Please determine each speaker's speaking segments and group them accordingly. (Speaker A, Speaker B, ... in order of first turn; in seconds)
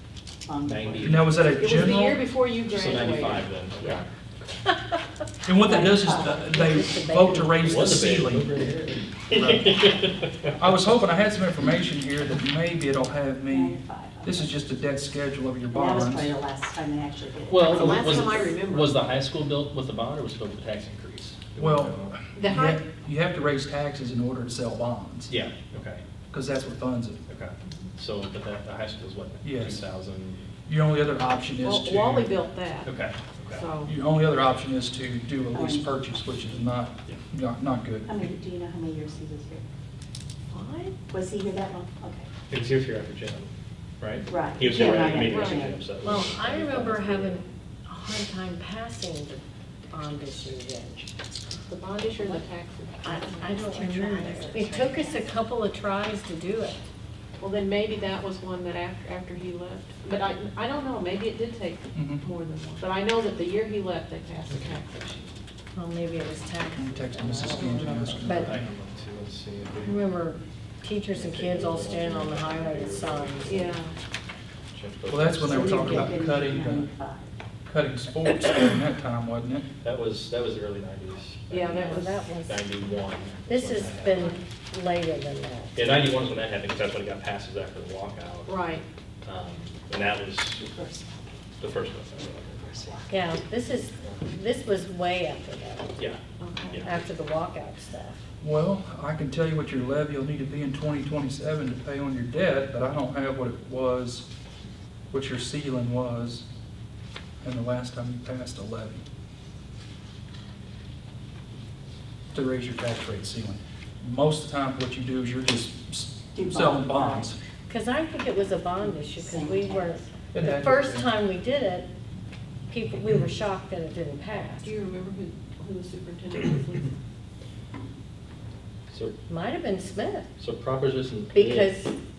Speaker A: 0.5-1.5, 5.5-6.5, 13.5-14.5, 15.7-18.6, 35.5-35.9, 38.0-39.6, 41.1-42.3, 44.2-45.9, 53.3-55.3, 75.5-77.3, 90.6-91.3, 116.3-117.3, 118.8-120.0
Speaker B: 0.6-1.3, 2.7-4.1, 7.6-10.5, 17.5-22.2, 25.3-26.0, 27.3-30.5, 32.8-33.7, 42.5-43.5, 44.0-47.5, 64.5-64.8, 67.5-70.1, 71.1-73.7, 74.7-76.2, 79.8-84.4, 85.8-88.6, 89.2-90.7, 91.6-93.4, 96.0-97.1, 128.9-129.2, 130.4-131.8
Speaker C: 1.0-2.2, 5.5-8.5, 9.3-9.8, 10.5-16.3, 21.6-25.3, 26.3-27.2, 29.4-29.8, 30.7-32.3, 33.9-38.1, 62.0-62.3, 66.8-68.5, 75.1-76.9, 77.7-79.7, 98.4-104.3, 105.1-106.5, 107.4-109.0, 112.3-117.4, 120.3-121.1
Speaker D: 1.6-3.9, 17.6-19.0, 22.4-22.8, 31.6-33.0, 33.5-33.9, 40.5-41.0, 44.7-45.7, 51.7-53.3, 57.4-65.3, 67.3-67.7, 73.5-73.9, 81.5-82.1, 88.5-88.8, 96.4-96.8, 124.6-126.9
Speaker E: 6.5-7.8, 46.0-51.1, 53.0-56.8, 65.7-68.5, 69.8-73.7, 75.5-76.1, 81.7-82.6, 83.5-85.8, 93.1-96.1, 96.8-98.2, 117.7-121.9, 122.7-124.7, 129.3-130.3, 131.3-131.9